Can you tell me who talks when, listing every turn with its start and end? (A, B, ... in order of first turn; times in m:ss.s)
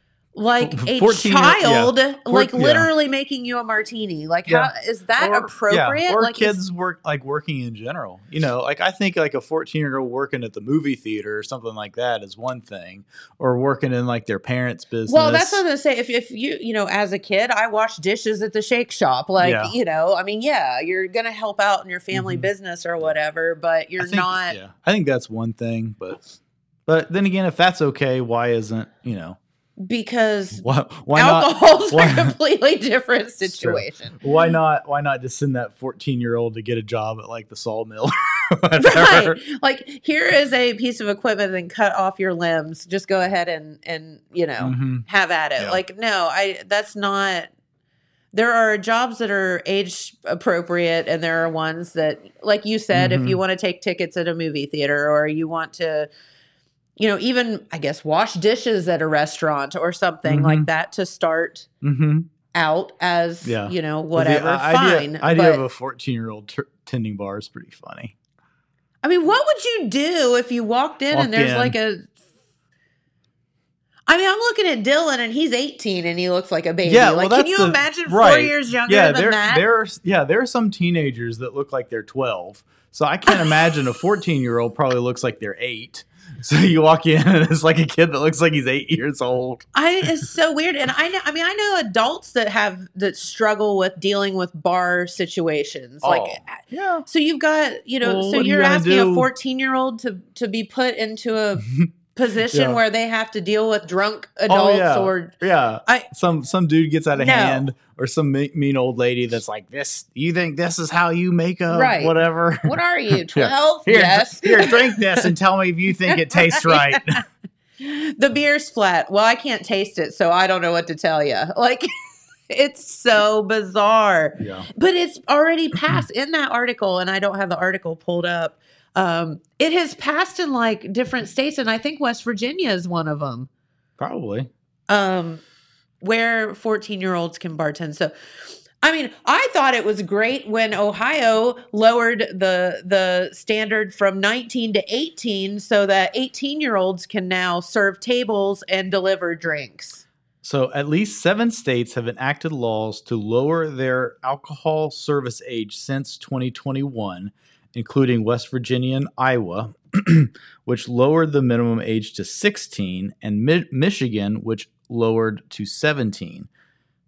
0:00.4-0:06.6 A
0:00.6-0:02.9 B
0:04.5-0:15.6 B
0:15.1-0:24.6 A
0:19.4-0:19.7 B
0:22.1-0:22.5 B
0:24.0-0:26.2 B
0:26.9-0:29.4 B
0:29.8-0:30.6 A
0:30.6-0:32.4 B
0:31.1-0:34.2 A
0:33.4-0:39.4 B
0:38.8-0:47.5 A
0:44.6-0:45.0 B
0:48.3-0:56.1 A
0:52.9-0:53.4 B
0:57.0-1:01.7 A
1:00.2-1:00.7 B
1:01.8-1:02.3 B
1:02.5-1:05.6 A
1:03.4-1:08.1 B
1:09.0-1:12.1 A
1:11.1-1:11.8 B
1:14.1-1:19.6 A
1:16.8-1:29.6 B
1:29.7-1:45.3 A
1:36.0-1:37.0 B
1:38.0-1:39.3 B
1:41.6-1:41.9 B
1:42.5-1:42.8 B
1:44.5-1:57.2 B
1:47.1-1:47.6 A
1:51.7-1:55.3 A
1:56.1-1:57.2 A
1:57.8-2:01.9 A
2:02.5-2:13.5 A
2:04.4-2:04.7 B
2:14.0-2:14.5 B
2:14.9-2:15.4 A
2:16.0-2:18.1 A
2:18.8-2:30.0 A
2:30.4-2:46.5 B